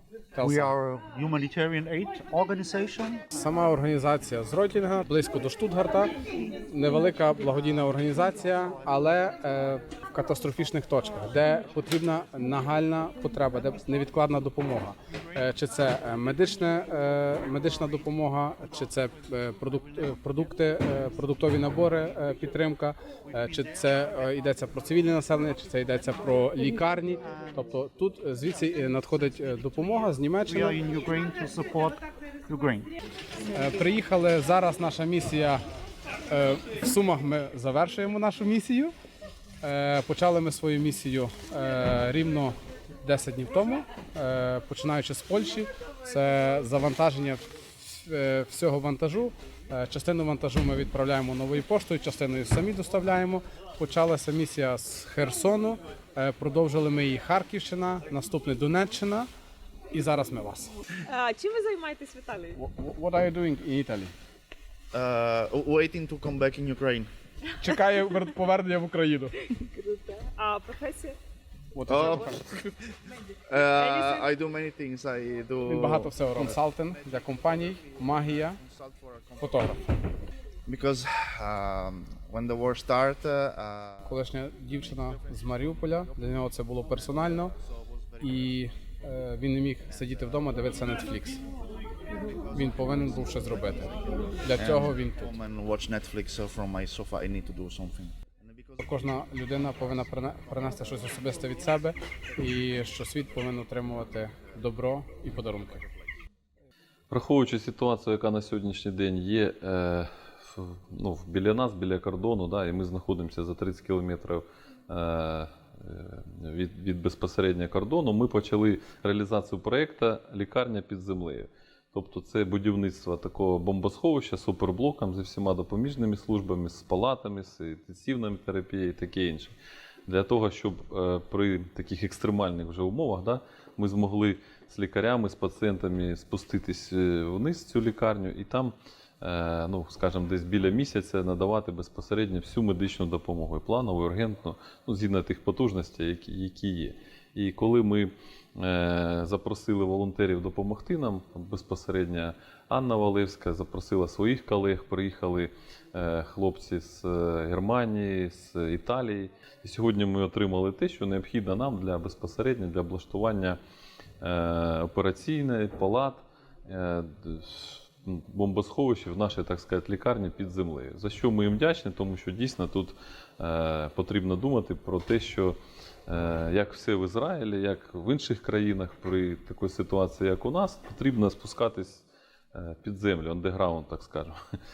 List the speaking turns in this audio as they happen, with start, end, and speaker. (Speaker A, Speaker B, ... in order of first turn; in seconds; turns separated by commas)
Speaker A: 0.3-0.8, Speaker B: 0.4-3.2, Speaker A: 3.3-30.8, Speaker B: 30.5-32.0, Speaker B: 32.5-32.9, Speaker A: 33.5-35.6, Speaker A: 36.3-38.9, Speaker A: 39.6-59.3, Speaker A: 59.9-60.7, Speaker C: 61.1-62.6, Speaker A: 62.5-64.1, Speaker D: 64.9-67.1, Speaker A: 67.6-69.4, Speaker C: 69.8-71.2, Speaker A: 71.8-72.5, Speaker D: 71.9-72.8, Speaker D: 73.5-79.7, Speaker C: 73.7-74.3, Speaker A: 75.7-78.6, Speaker A: 79.4-79.8, Speaker D: 80.7-84.1, Speaker A: 84.0-87.5, Speaker D: 87.2-88.2, Speaker A: 88.2-91.4, Speaker D: 92.3-93.4, Speaker A: 92.5-95.3, Speaker D: 94.5-98.9, Speaker A: 98.8-105.8, Speaker E: 107.1-129.6, Speaker E: 130.1-163.6, Speaker E: 164.2-175.6, Speaker E: 176.1-184.4